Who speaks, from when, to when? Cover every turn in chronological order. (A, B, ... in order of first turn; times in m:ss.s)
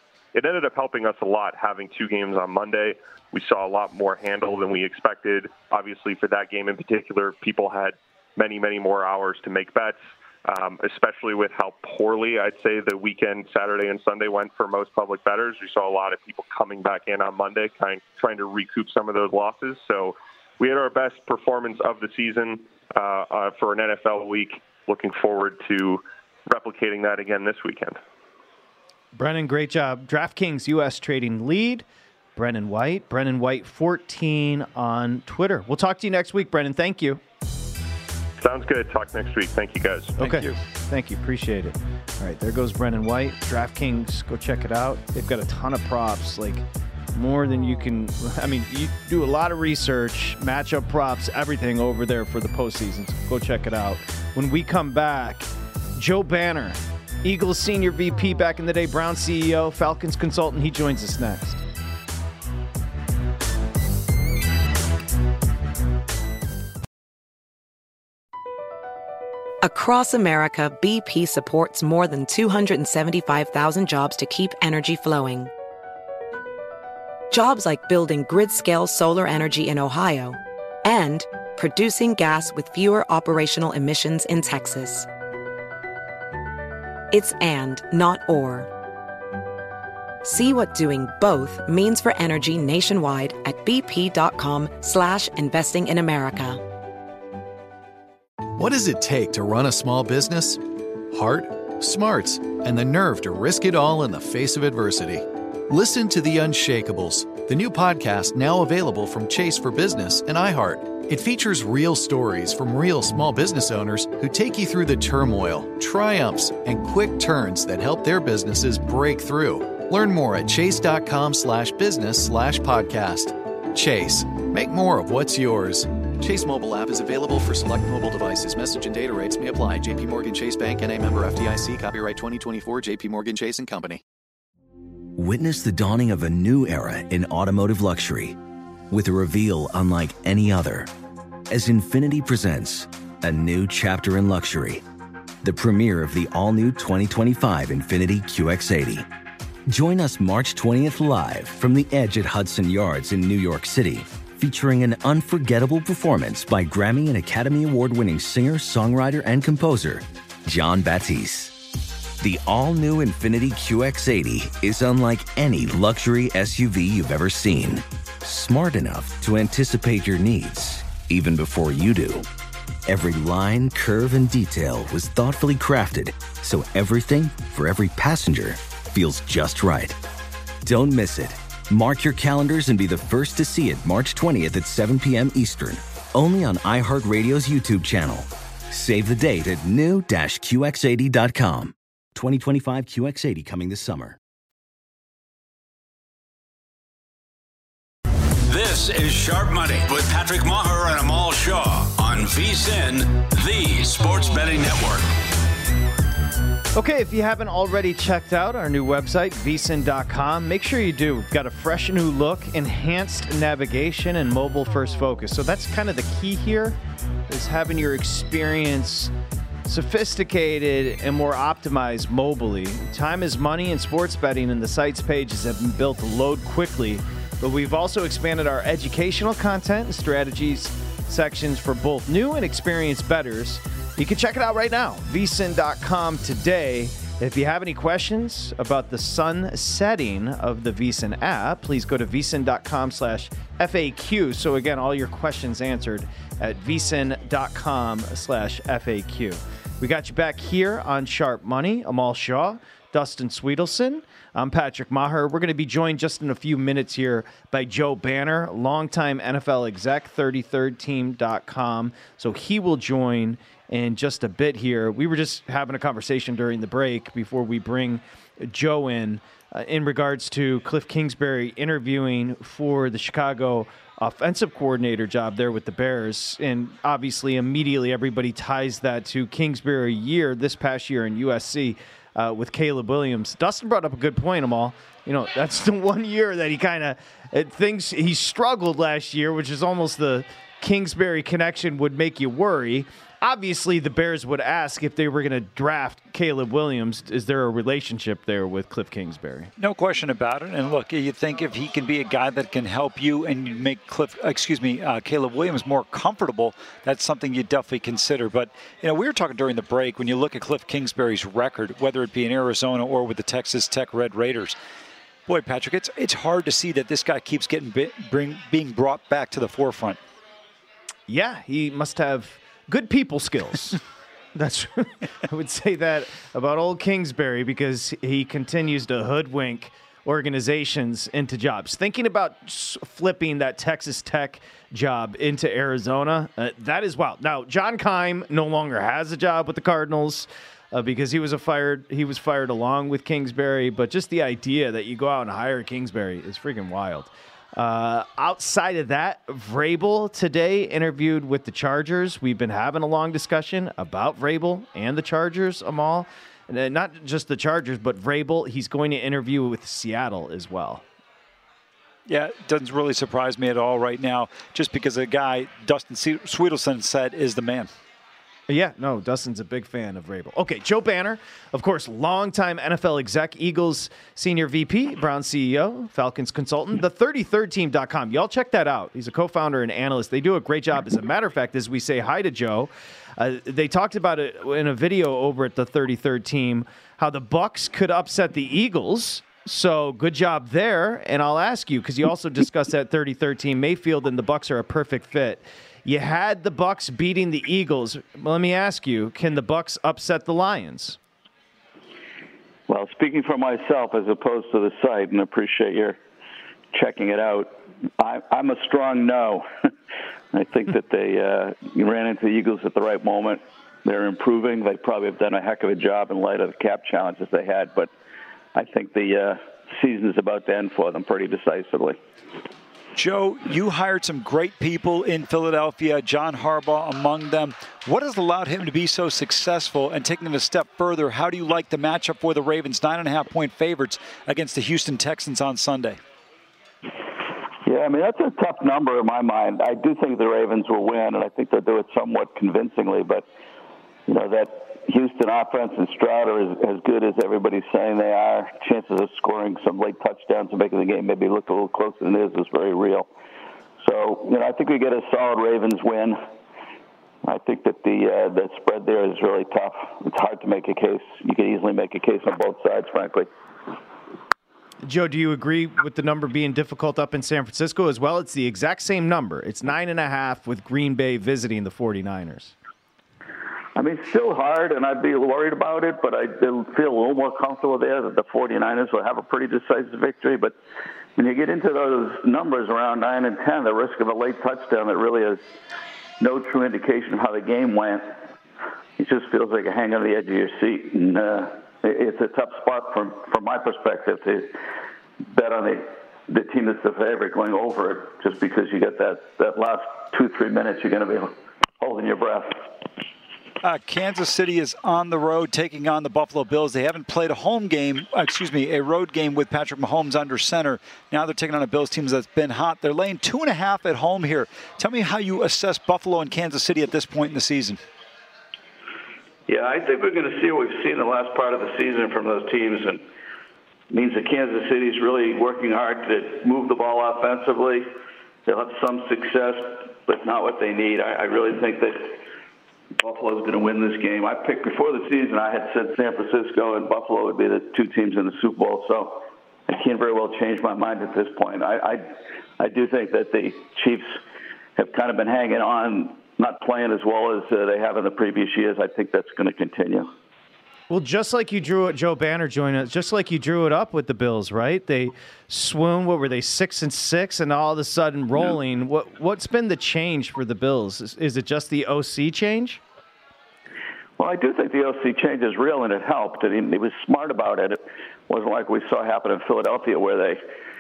0:00.3-0:28.0 A
0:29.1-0:31.8 B
0:32.4-0:37.2 B
0:38.4-0:40.2 A
0:40.2-1:01.6 B
0:40.2-0:40.5 C
1:09.6-1:15.5 D
1:17.3-1:25.1 D
1:27.1-1:28.7 D
1:30.2-1:36.6 D
1:38.5-2:14.0 E
2:15.2-2:18.4 F
2:18.9-2:20.9 F
2:21.5-2:24.8 F
2:25.4-2:29.1 F
2:29.7-2:41.7 F
2:42.2-2:52.3 F
2:52.9-3:00.0 F
3:00.6-3:14.2 F
3:18.5-3:25.2 G
3:26.7-3:36.8 B
3:37.3-3:39.1 B
3:39.7-4:59.5 B
4:59.6-5:14.6 C
5:15.3-5:20.0 C
5:21.1-5:23.8 B
5:24.4-6:00.8 B
6:02.1-6:07.7 C
6:08.5-6:41.0 B
6:42.7-6:46.0 H
6:46.7-6:49.5 H
6:50.3-6:57.9 H
6:58.6-7:02.0 H
7:03.0-7:16.0 C
7:17.6-7:23.2 H
7:24.1-7:33.1 H
7:33.8-7:36.2 H
7:37.2-7:43.3 H
7:44.8-7:52.6 B
7:53.8-8:00.5 H
8:01.2-8:05.4 H
8:06.2-8:08.2 H
8:09.0-8:14.6 H
8:15.3-8:22.6 H
8:23.6-8:37.8 C
8:39.5-8:43.0 H
8:43.9-8:47.9 H
8:48.5-8:52.2 H
8:53.0-9:04.2 H
9:04.8-9:10.1 H
9:10.9-9:22.8 B
9:24.2-9:30.4 H